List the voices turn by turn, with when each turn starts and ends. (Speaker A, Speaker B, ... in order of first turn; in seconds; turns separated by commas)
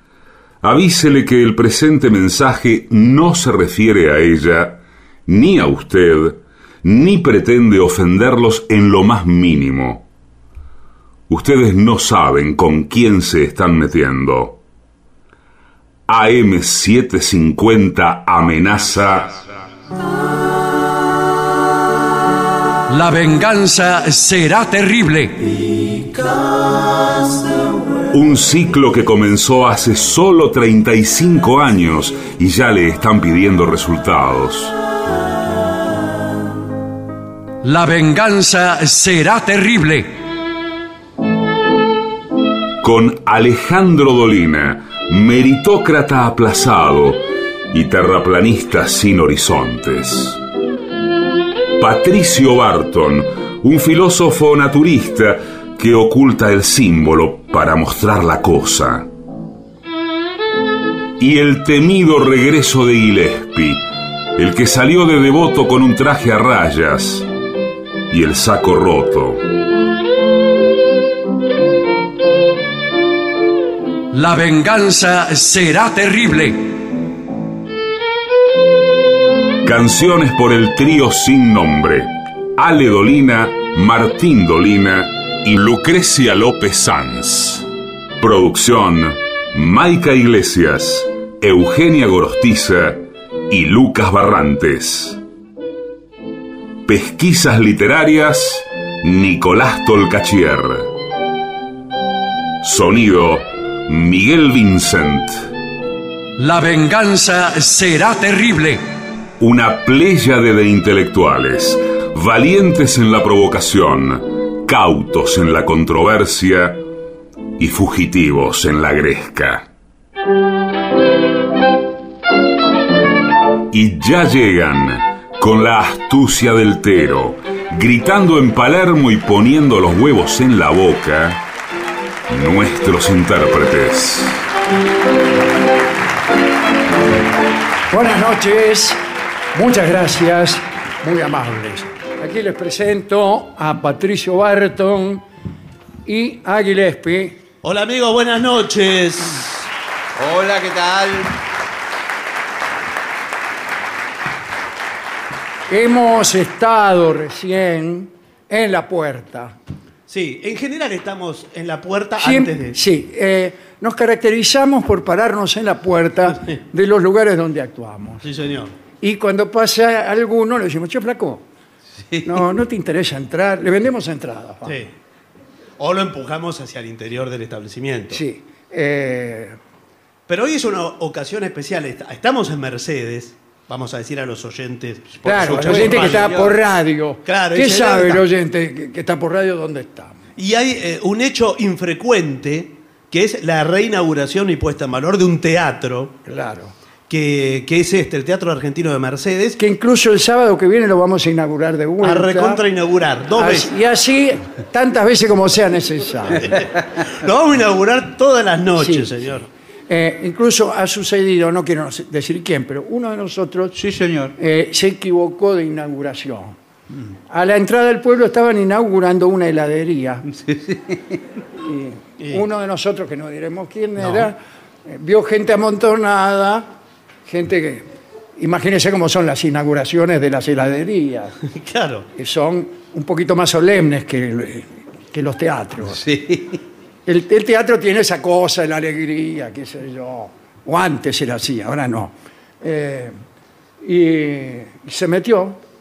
Speaker A: 0.6-10.0, Speaker A: 11.3-14.6, Speaker A: 16.1-19.4, Speaker B: 22.9-25.5, Speaker A: 28.1-34.7, Speaker B: 37.6-40.1, Speaker A: 42.8-50.4, Speaker A: 51.8-59.1, Speaker A: 61.2-63.8, Speaker A: 64.4-67.3, Speaker A: 68.1-69.4, Speaker B: 74.1-76.8, Speaker A: 79.6-87.7, Speaker A: 88.2-95.2, Speaker A: 96.8-100.9, Speaker A: 102.6-105.4, Speaker B: 106.4-108.8, Speaker A: 109.4-116.8, Speaker A: 117.6-119.7, Speaker A: 123.7-131.4, Speaker A: 132.3-134.4, Speaker C: 137.9-139.0, Speaker C: 139.5-145.2, Speaker C: 146.1-147.4, Speaker D: 147.6-149.6, Speaker E: 150.1-151.3, Speaker C: 155.7-159.5, Speaker D: 160.1-162.8, Speaker C: 162.2-168.2, Speaker D: 168.2-168.7, Speaker C: 169.0-171.4, Speaker E: 172.1-172.4, Speaker C: 172.2-174.8, Speaker D: 175.8-178.2, Speaker C: 178.1-179.6, Speaker D: 180.3-186.4, Speaker E: 185.1-186.6, Speaker C: 185.2-190.2, Speaker D: 187.2-188.2, Speaker D: 190.4-196.2, Speaker C: 196.2-196.7, Speaker D: 197.1-199.6, Speaker C: 199.6-202.6, Speaker D: 202.0-203.7, Speaker C: 203.3-206.5, Speaker D: 206.4-209.5, Speaker C: 208.8-209.1, Speaker C: 209.9-213.8, Speaker E: 213.7-214.3, Speaker C: 214.4-216.6, Speaker C: 217.3-220.3, Speaker E: 220.3-221.2, Speaker C: 221.6-226.7, Speaker D: 224.0-224.3, Speaker C: 227.2-231.3, Speaker D: 231.5-232.1, Speaker C: 232.1-236.0, Speaker E: 235.8-236.6, Speaker C: 237.1-243.2, Speaker C: 243.8-245.6